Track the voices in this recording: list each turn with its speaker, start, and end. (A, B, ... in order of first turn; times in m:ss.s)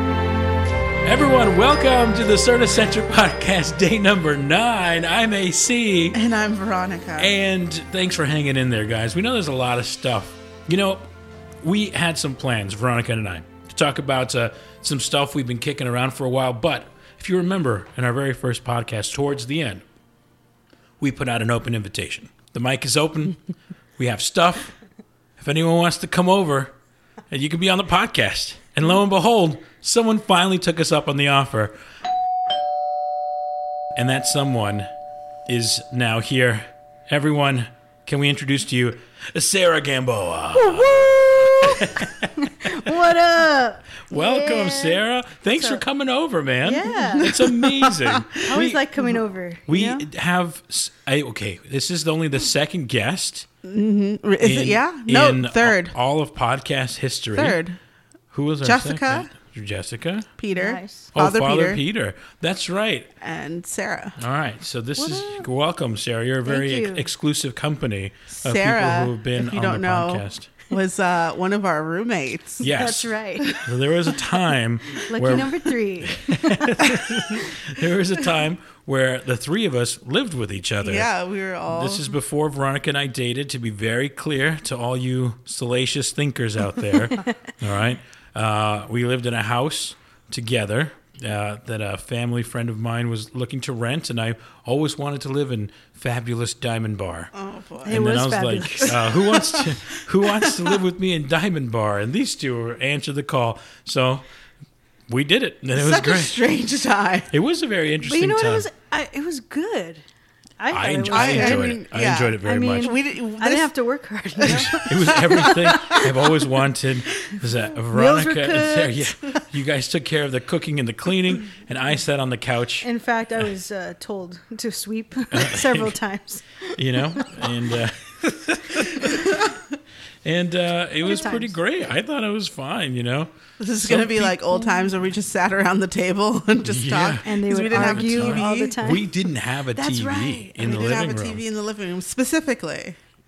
0:01.0-0:06.2 A
0:06.1-0:07.3 B
0:07.2-0:11.1 A
0:11.6-0:19.8 A
0:21.0-0:23.4 A
0:24.0-0:24.7 A
0:25.4-0:26.7 A
0:27.3-0:31.8 A
0:33.9-0:34.9 A
0:35.5-0:42.9 A
0:42.4-0:45.8 C
0:44.1-0:48.8 A
0:46.6-0:47.3 C
0:47.2-0:48.4 B
0:48.5-0:50.0 C
0:49.7-0:53.5 A
0:53.6-0:55.9 B
0:54.4-0:57.6 A
0:57.4-0:57.8 B
0:58.3-1:00.3 A
0:58.6-0:59.3 B
1:00.4-1:01.8 B
1:00.5-1:01.1 C
1:01.1-1:03.1 A
1:03.2-1:04.2 B
1:04.2-1:10.5 A
1:05.0-1:05.4 C
1:06.4-1:07.1 C
1:08.3-1:12.7 B
1:12.6-1:21.1 A
1:12.6-1:13.6 C
1:15.0-1:16.8 C
1:20.8-1:22.1 B
1:21.7-1:37.3 A
1:37.3-1:38.0 B
1:37.8-1:39.1 C
1:37.8-1:44.2 A
1:38.9-1:40.8 B
1:45.1-1:46.4 A
1:45.7-1:47.3 B
1:47.3-1:48.7 A
1:48.0-1:50.0 C
1:50.6-1:51.7 C
1:50.7-1:52.9 A
1:51.1-1:53.7 B
1:52.4-1:56.1 C
1:54.4-1:56.0 B
1:54.4-2:02.9 A
1:57.9-1:59.4 C
2:02.8-2:07.5 C
2:05.3-2:06.0 A
2:06.8-2:09.5 A
2:10.2-2:13.3 A
2:11.0-2:11.6 C
2:13.6-2:18.8 B
2:13.8-2:14.4 A
2:16.6-2:21.4 A
2:17.2-2:19.1 C
2:19.7-2:21.0 C
2:20.6-2:23.0 B